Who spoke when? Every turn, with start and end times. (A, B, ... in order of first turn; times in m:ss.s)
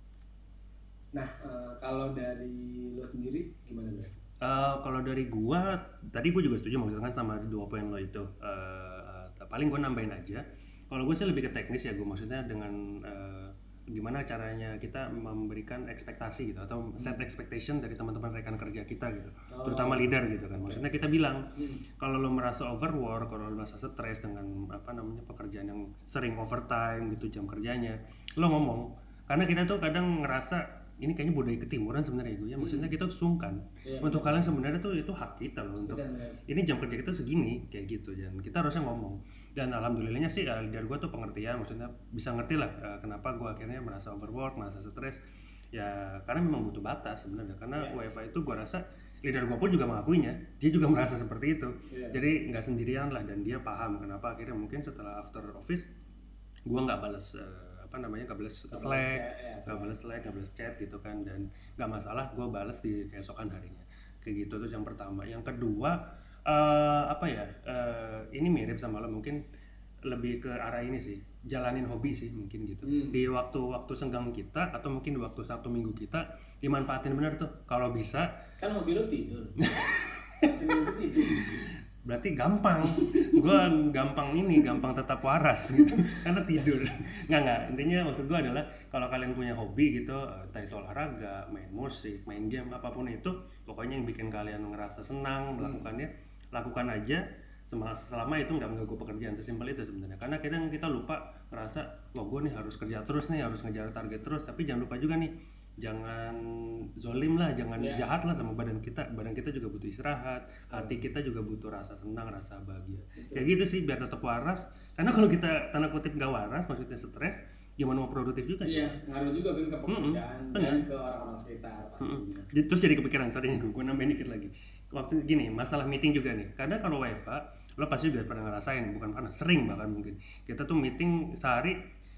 0:01.1-0:04.2 A
0:04.4-0:21.5 B
0:19.5-0:21.8 A
0:22.0-0:45.2 B
0:32.6-0:32.9 A
0:33.8-0:34.6 A
0:35.8-0:36.4 A
0:45.7-0:55.9 B
0:51.9-0:52.2 A
0:56.7-1:09.4 B
0:58.7-1:00.0 A
1:10.1-1:18.3 B
1:12.8-1:13.2 A
1:18.6-1:19.7 A
1:19.6-1:58.9 B
1:20.4-1:21.6 A
1:22.8-1:23.6 A
1:35.6-1:35.8 A
1:47.8-1:48.0 A
1:50.7-1:51.0 A
1:53.2-1:53.5 A
1:58.6-2:02.5 A
1:59.9-2:00.8 B
2:02.0-2:11.8 B